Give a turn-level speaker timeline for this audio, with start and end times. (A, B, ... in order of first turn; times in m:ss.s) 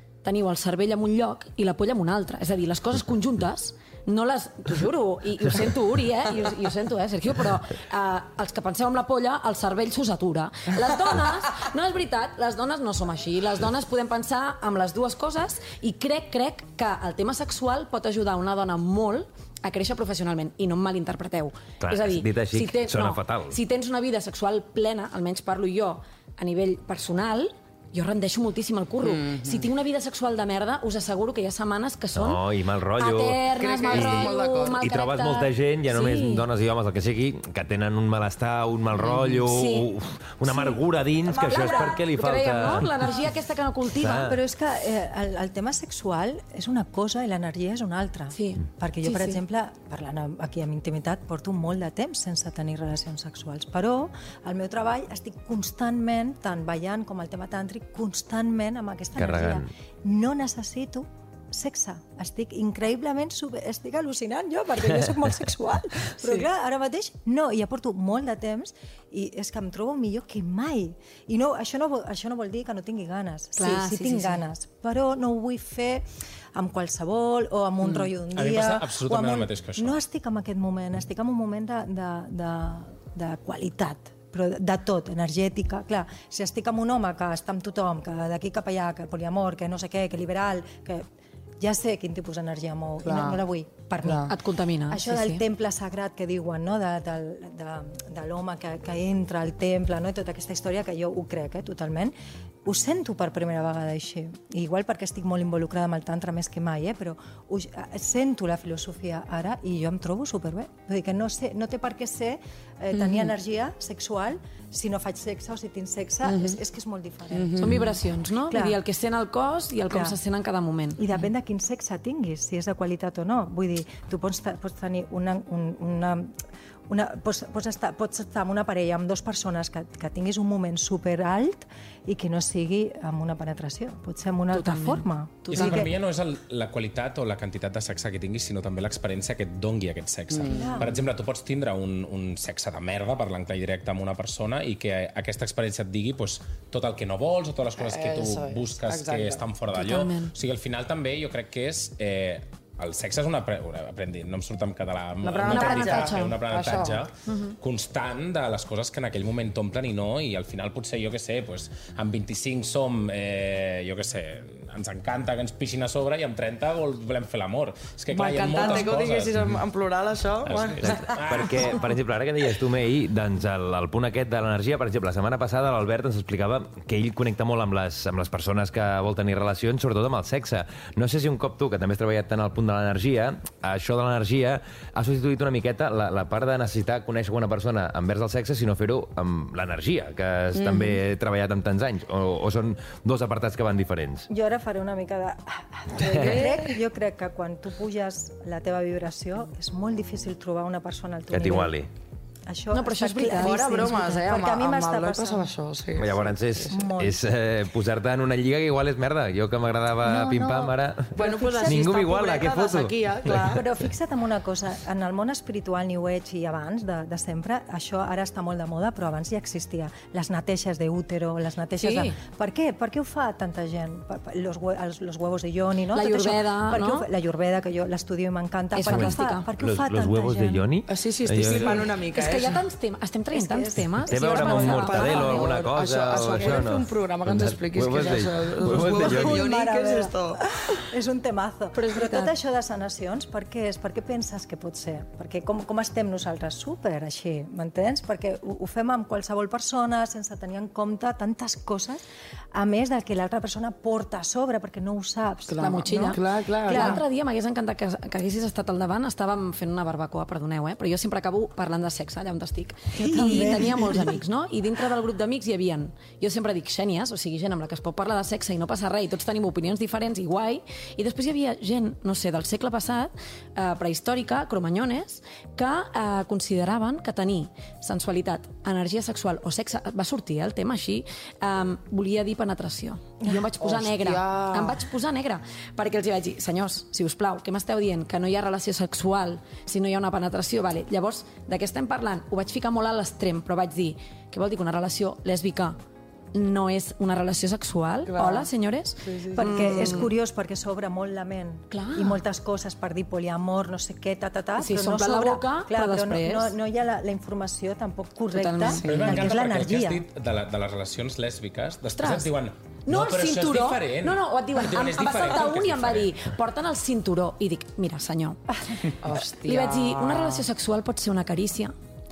0:00.2-0:32.4 A
0:21.8-0:23.6 B
0:29.0-0:29.6 C
0:32.1-0:42.9 B
0:32.9-0:36.4 A
0:33.6-0:34.8 C
0:39.0-0:39.3 C
0:39.5-0:39.9 A
0:41.3-0:44.3 A
0:44.0-0:44.4 B
0:44.0-1:16.0 D
0:48.3-0:49.4 A
0:59.1-0:59.7 B
1:04.9-1:05.2 B
1:06.2-1:06.4 A
1:13.6-1:14.4 A
1:16.5-1:31.0 D
1:17.8-1:18.1 A
1:18.3-1:20.0 E
1:31.6-1:34.3 D
1:33.0-1:33.4 C
1:34.0-1:34.3 C
1:34.3-1:35.4 A
1:34.9-1:58.8 D
1:52.9-1:53.3 C
1:56.2-1:56.6 C
1:57.3-1:57.7 C
1:57.6-2:01.0 A
1:59.9-2:00.2 D
2:01.0-2:06.3 D
2:06.9-2:15.9 D
2:14.5-2:15.9 A
2:15.5-2:49.4 E
2:20.3-2:20.8 C
2:20.4-2:21.0 D
2:27.8-2:29.4 C
2:29.7-2:30.3 A
2:35.2-2:37.0 C
2:35.4-2:36.4 A
2:37.2-2:37.6 A
2:48.1-2:51.8 C
2:50.4-2:51.7 E
2:50.5-3:14.3 B
3:10.5-3:11.0 C
3:14.3-3:21.7 D
3:16.0-3:16.6 B
3:16.1-3:16.7 C
3:21.3-3:21.9 B
3:22.5-3:25.5 D
3:22.7-3:24.0 A
3:23.4-3:26.7 C
3:26.0-3:32.9 B
3:26.7-3:27.3 D
3:30.0-3:33.7 C
3:31.2-3:31.8 D
3:33.4-3:50.6 D
3:41.8-3:42.2 A
3:45.9-3:47.1 A
3:48.7-3:49.5 A
3:48.8-3:52.0 B
3:50.9-3:52.6 C
3:52.1-3:55.5 A
3:53.3-3:54.0 D
3:54.1-3:59.5 B
3:54.1-4:00.5 C
3:58.8-4:12.0 D
4:01.7-4:02.3 A
4:12.5-4:17.0 D
4:15.5-4:17.0 C
4:15.6-4:55.8 A
4:23.0-4:24.2 D
4:43.6-4:44.8 C
4:56.3-5:00.1 A
4:58.1-4:58.5 C
4:59.0-5:00.1 C
4:59.4-5:10.0 D
5:01.7-5:02.2 A
5:04.6-5:06.5 A
5:08.3-5:08.8 A
5:08.8-5:09.2 C
5:08.8-5:16.2 E
5:12.0-5:12.3 A
5:12.8-5:18.4 A
5:18.8-5:20.5 C
5:19.1-5:21.7 A